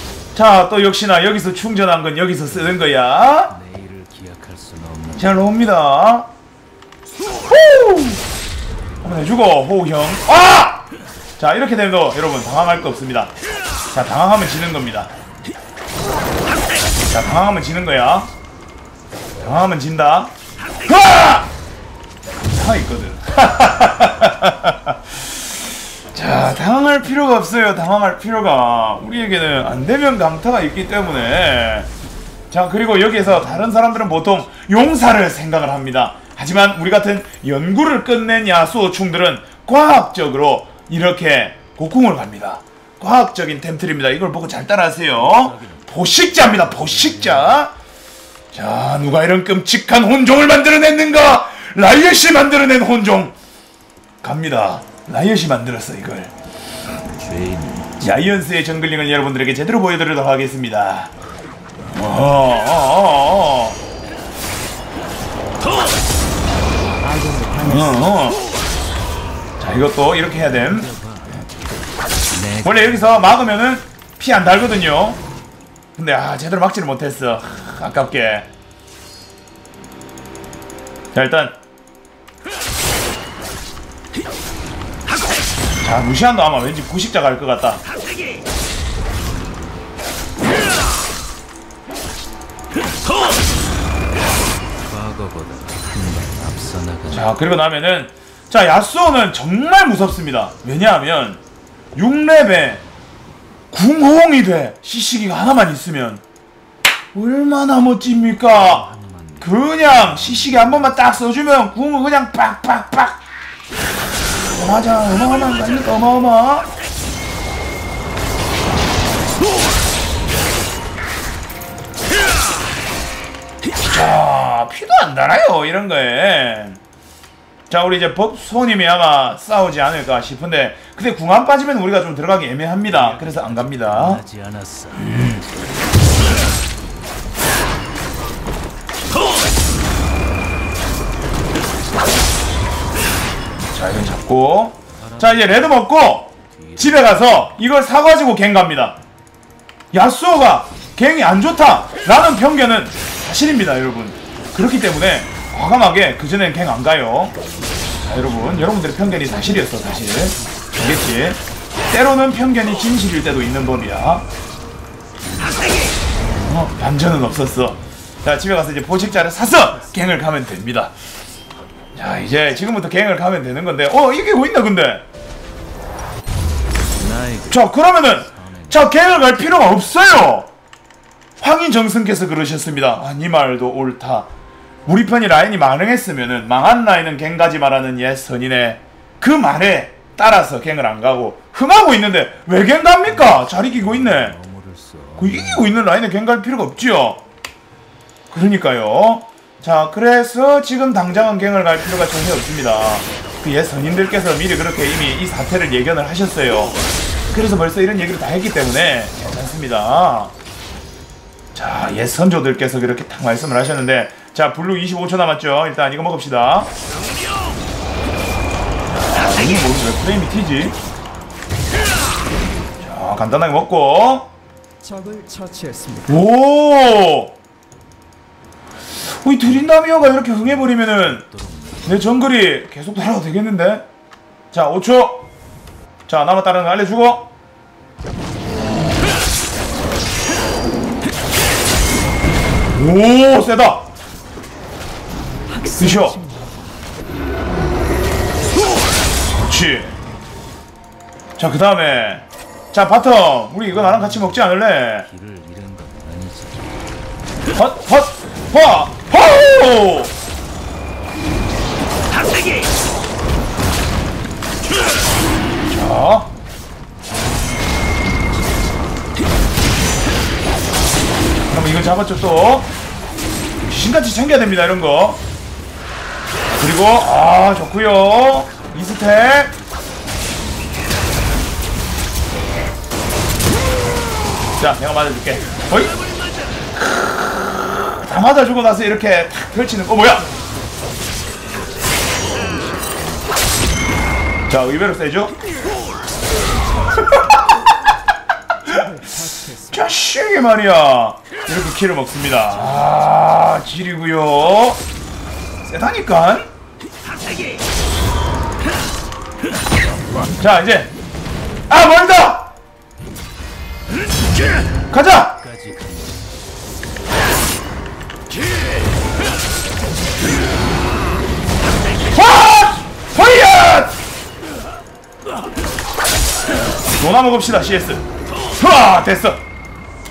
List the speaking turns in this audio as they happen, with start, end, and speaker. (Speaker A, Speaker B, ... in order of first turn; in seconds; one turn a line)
Speaker A: 0.3-3.5
Speaker B: 2.5-2.8
Speaker B: 3.5-5.4
Speaker A: 5.2-6.3
Speaker A: 7.4-8.2
Speaker A: 9.0-10.8
Speaker A: 11.4-13.3
Speaker A: 13.9-15.1
Speaker A: 17.1-18.3
Speaker A: 19.4-21.5
Speaker A: 22.4-25.3
Speaker A: 26.1-31.9
Speaker A: 32.5-47.7
Speaker B: 33.2-34.2
Speaker B: 45.1-47.6
Speaker A: 48.5-53.3
Speaker A: 54.2-56.3
Speaker B: 57.0-58.2
Speaker A: 58.0-61.1
Speaker A: 61.9-63.8
Speaker C: 67.0-68.0
Speaker A: 67.6-68.4
Speaker A: 69.6-70.9
Speaker B: 70.4-71.5
Speaker B: 72.3-73.4
Speaker A: 72.6-75.2
Speaker A: 76.0-78.5
Speaker A: 81.1-81.5
Speaker A: 85.8-87.8
Speaker B: 94.8-97.3
Speaker A: 97.1-101.4
Speaker A: 102.0-102.8
Speaker A: 103.7-106.2
Speaker A: 107.1-108.8
Speaker B: 108.4-111.4
Speaker A: 109.4-113.2
Speaker A: 114.5-116.7
Speaker A: 123.8-126.8
Speaker A: 127.7-134.2
Speaker B: 132.8-135.7
Speaker A: 143.7-149.0
Speaker B: 144.9-147.6
Speaker A: 149.9-157.3
Speaker B: 157.4-159.1
Speaker A: 158.0-164.2
Speaker C: 159.2-160.3
Speaker A: 166.4-170.9
Speaker C: 169.2-169.9
Speaker A: 171.9-175.0
Speaker B: 176.9-178.9
Speaker A: 177.5-180.5
Speaker A: 181.4-184.3
Speaker A: 184.8-194.3
Speaker B: 193.0-195.7
Speaker A: 195.2-197.2
Speaker A: 198.3-206.7
Speaker A: 207.3-210.3
Speaker A: 211.5-216.7
Speaker A: 218.9-220.8
Speaker A: 222.8-224.3
Speaker C: 224.8-226.2
Speaker A: 226.1-227.3
Speaker A: 229.2-231.2
Speaker B: 229.5-232.3
Speaker A: 231.8-233.8
Speaker A: 234.5-235.2
Speaker A: 236.1-237.3
Speaker A: 242.7-243.8
Speaker C: 245.5-246.6
Speaker A: 245.8-246.2
Speaker A: 249.3-249.9
Speaker A: 251.4-255.1
Speaker B: 253.7-254.4
Speaker B: 255.0-257.0
Speaker A: 257.5-260.1
Speaker A: 265.7-266.3
Speaker A: 271.5-272.7
Speaker A: 273.6-275.2
Speaker A: 276.5-279.5
Speaker A: 284.5-286.0
Speaker A: 287.4-290.3
Speaker B: 291.8-293.5
Speaker A: 294.5-295.3
Speaker A: 296.9-297.2
Speaker C: 298.7-299.8
Speaker A: 299.7-304.8
Speaker A: 305.6-306.5
Speaker A: 310.4-310.9
Speaker A: 311.7-312.5
Speaker A: 314.9-315.4
Speaker B: 315.3-316.4
Speaker A: 322.1-324.0
Speaker A: 327.0-329.4